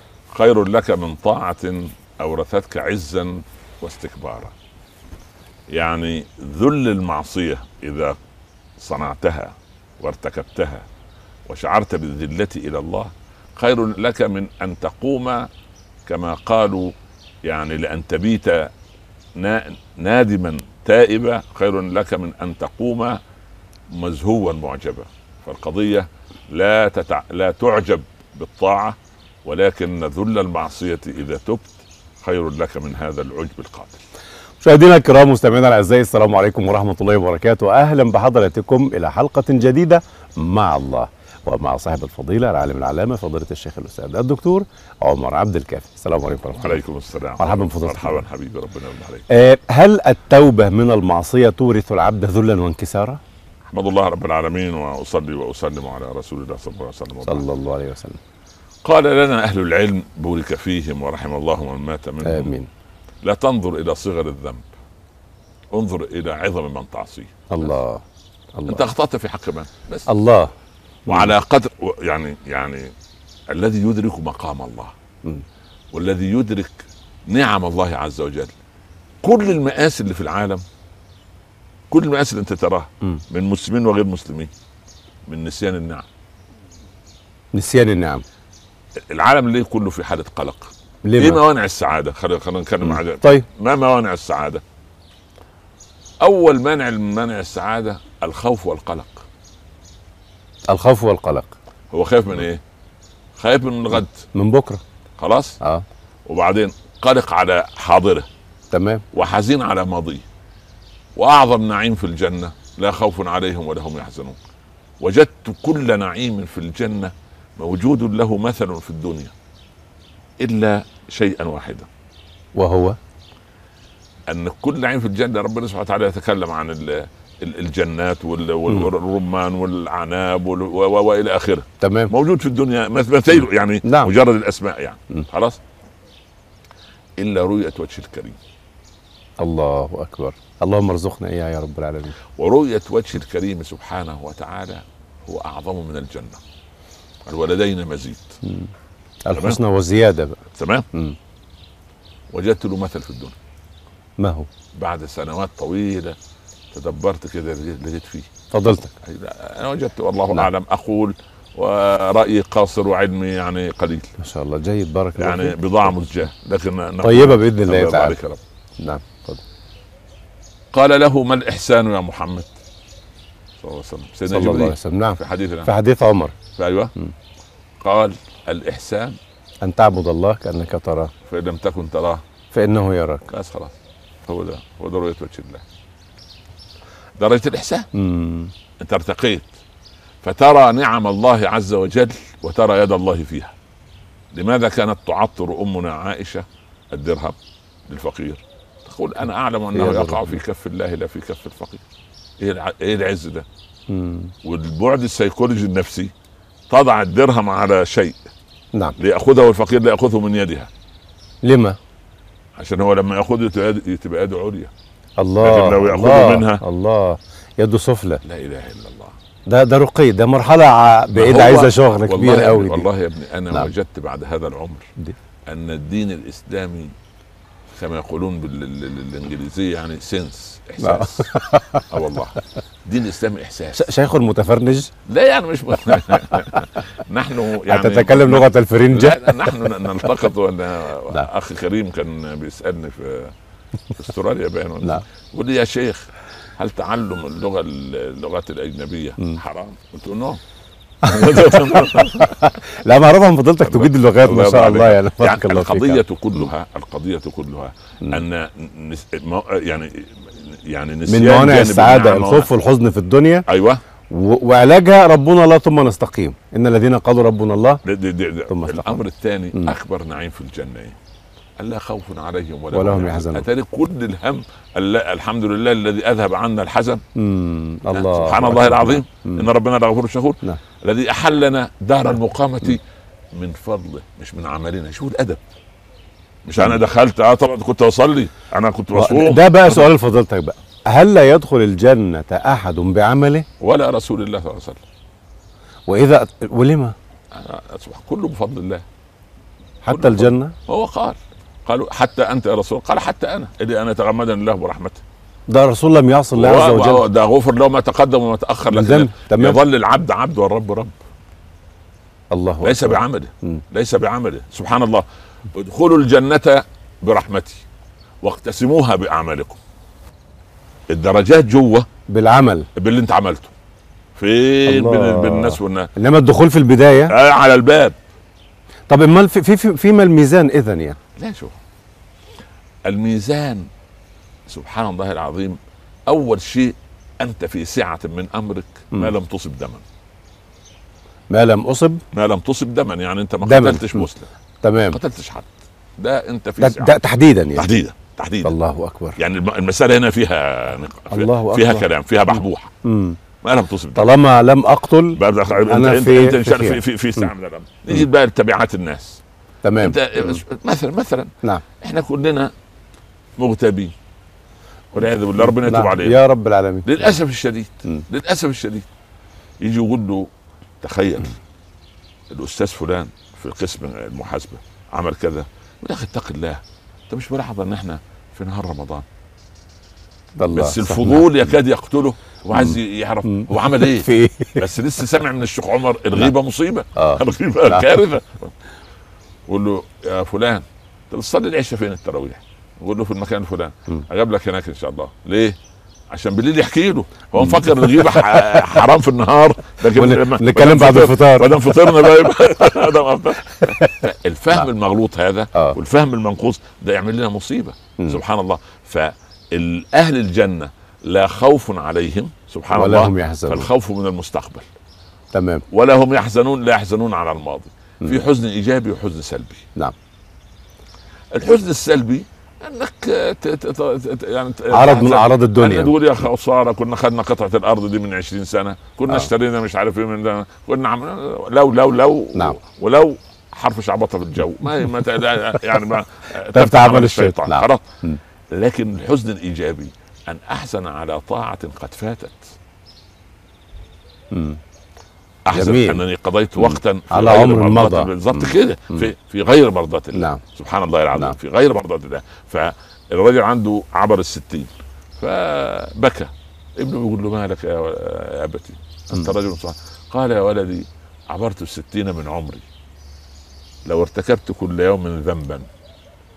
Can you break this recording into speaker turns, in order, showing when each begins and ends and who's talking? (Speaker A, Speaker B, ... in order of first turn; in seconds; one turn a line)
Speaker A: 0.3-4.5
Speaker A: 5.7-8.2
Speaker A: 8.8-10.8
Speaker A: 11.5-15.5
Speaker A: 16.1-16.9
Speaker A: 17.4-18.7
Speaker A: 19.4-23.2
Speaker A: 23.9-34.0
Speaker B: 34.6-46.8
Speaker A: 46.5-49.2
Speaker B: 47.4-48.2
Speaker B: 49.3-53.2
Speaker A: 53.7-57.4
Speaker B: 57.2-58.2
Speaker A: 58.8-62.5
Speaker B: 62.2-62.7
Speaker A: 63.2-64.6
Speaker A: 65.7-67.7
Speaker B: 67.5-68.0
Speaker B: 68.6-68.9
Speaker A: 68.7-70.1
Speaker B: 70.1-70.5
Speaker A: 71.1-72.9
Speaker A: 73.5-74.9
Speaker A: 75.9-78.5
Speaker A: 79.2-80.6
Speaker A: 81.9-84.5
Speaker A: 85.3-86.0
Speaker B: 87.5-88.2
Speaker A: 89.1-94.6
Speaker B: 91.0-91.4
Speaker B: 92.9-93.5
Speaker A: 96.2-99.2
Speaker B: 100.7-101.5
Speaker A: 101.9-102.6
Speaker A: 103.4-104.2
Speaker B: 104.3-104.8
Speaker A: 105.2-105.6
Speaker A: 106.3-108.3
Speaker B: 108.7-109.0
Speaker A: 109.1-110.2
Speaker A: 111.2-114.4
Speaker A: 115.0-119.3
Speaker A: 120.4-121.9
Speaker B: 122.5-123.0
Speaker A: 124.3-135.6
Speaker B: 131.8-132.1
Speaker B: 133.8-134.1
Speaker A: 137.2-138.4
Speaker B: 139.4-142.2
Speaker A: 142.4-146.4
Speaker A: 147.2-148.4
Speaker B: 148.4-148.7
Speaker B: 149.2-150.4
Speaker A: 150.6-150.8
Speaker A: 152.3-153.3
Speaker B: 154.2-154.5
Speaker A: 154.7-156.2
Speaker A: 156.7-158.3
Speaker B: 158.5-158.9
Speaker A: 159.0-164.1
Speaker B: 164.2-165.7
Speaker A: 165.2-168.4
Speaker B: 167.0-168.2
Speaker B: 168.8-169.4
Speaker A: 170.7-172.5
Speaker A: 173.6-175.7
Speaker B: 174.3-176.3
Speaker A: 176.6-176.9
Speaker A: 177.8-179.2
Speaker B: 179.6-181.1
Speaker A: 181.3-182.2
Speaker B: 182.5-183.3
Speaker A: 183.3-183.7
Speaker A: 184.3-185.6
Speaker A: 187.2-187.9
Speaker B: 187.9-188.5
Speaker A: 188.8-189.5
Speaker A: 190.2-193.5
Speaker A: 194.3-197.3
Speaker A: 197.9-201.8
Speaker B: 199.7-200.4
Speaker A: 202.4-203.4
Speaker B: 203.9-204.3
Speaker A: 204.4-206.1
Speaker A: 206.7-208.2
Speaker A: 209.0-210.7
Speaker B: 211.4-211.8
Speaker A: 212.6-214.7
Speaker B: 215.2-218.2
Speaker A: 215.4-216.6
Speaker A: 218.2-219.2
Speaker B: 219.5-222.9
Speaker A: 221.1-224.8
Speaker A: 225.5-226.9
Speaker A: 227.7-231.3
Speaker B: 230.8-231.9
Speaker A: 231.9-233.9
Speaker B: 233.7-234.9
Speaker A: 235.1-243.3
Speaker B: 237.7-239.7
Speaker A: 243.9-250.4
Speaker A: 251.0-252.5
Speaker B: 251.1-256.4
Speaker A: 253.6-262.5
Speaker B: 261.1-263.5
Speaker A: 263.5-263.8
Speaker B: 264.1-267.8
Speaker A: 267.8-271.0
Speaker B: 268.5-269.0
Speaker A: 271.6-277.0
Speaker B: 272.7-273.4
Speaker B: 277.1-279.5
Speaker A: 277.9-282.8
Speaker A: 283.3-285.4
Speaker A: 286.4-289.9
Speaker B: 288.9-293.5
Speaker A: 293.6-294.8
Speaker B: 295.9-296.9
Speaker A: 297.3-298.8
Speaker B: 299.8-300.5
Speaker A: 299.9-305.0
Speaker B: 305.5-307.1
Speaker A: 306.3-310.9
Speaker B: 308.7-309.6
Speaker B: 312.3-313.6
Speaker A: 312.6-317.6
Speaker A: 318.2-319.6
Speaker A: 320.9-321.9
Speaker B: 322.1-322.7
Speaker A: 322.8-323.5
Speaker A: 324.1-325.9
Speaker B: 324.7-327.1
Speaker A: 327.0-327.9
Speaker B: 328.9-331.0
Speaker A: 331.2-331.6
Speaker A: 332.8-333.7
Speaker A: 334.5-339.8
Speaker B: 341.3-342.0
Speaker A: 342.1-344.3
Speaker B: 343.4-344.1
Speaker B: 344.6-345.0
Speaker A: 344.9-346.9
Speaker B: 346.6-347.7
Speaker A: 347.5-348.5
Speaker B: 348.4-349.2
Speaker A: 349.2-352.7
Speaker B: 351.1-351.9
Speaker B: 352.8-353.2
Speaker A: 353.4-354.2
Speaker B: 353.9-357.3
Speaker A: 355.1-359.2
Speaker B: 359.6-360.0
Speaker A: 359.8-362.5
Speaker A: 363.4-363.9
Speaker A: 364.9-366.2
Speaker B: 365.4-367.1
Speaker A: 366.8-368.9
Speaker A: 369.6-370.3
Speaker A: 370.8-371.3
Speaker A: 372.3-379.0
Speaker B: 380.4-381.4
Speaker A: 380.5-388.5
Speaker B: 382.5-384.7
Speaker B: 386.9-387.9
Speaker A: 389.5-395.6
Speaker A: 396.1-414.6
Speaker B: 397.4-398.6
Speaker B: 399.9-402.3
Speaker B: 403.6-404.0
Speaker B: 412.7-413.7
Speaker B: 415.3-415.6
Speaker A: 415.7-419.6
Speaker A: 421.3-437.8
Speaker B: 424.7-425.9
Speaker B: 436.5-438.2
Speaker A: 438.5-442.4
Speaker B: 444.3-444.6
Speaker A: 445.4-462.6
Speaker B: 445.5-446.0
Speaker B: 446.6-449.0
Speaker B: 450.1-450.4
Speaker A: 463.8-465.7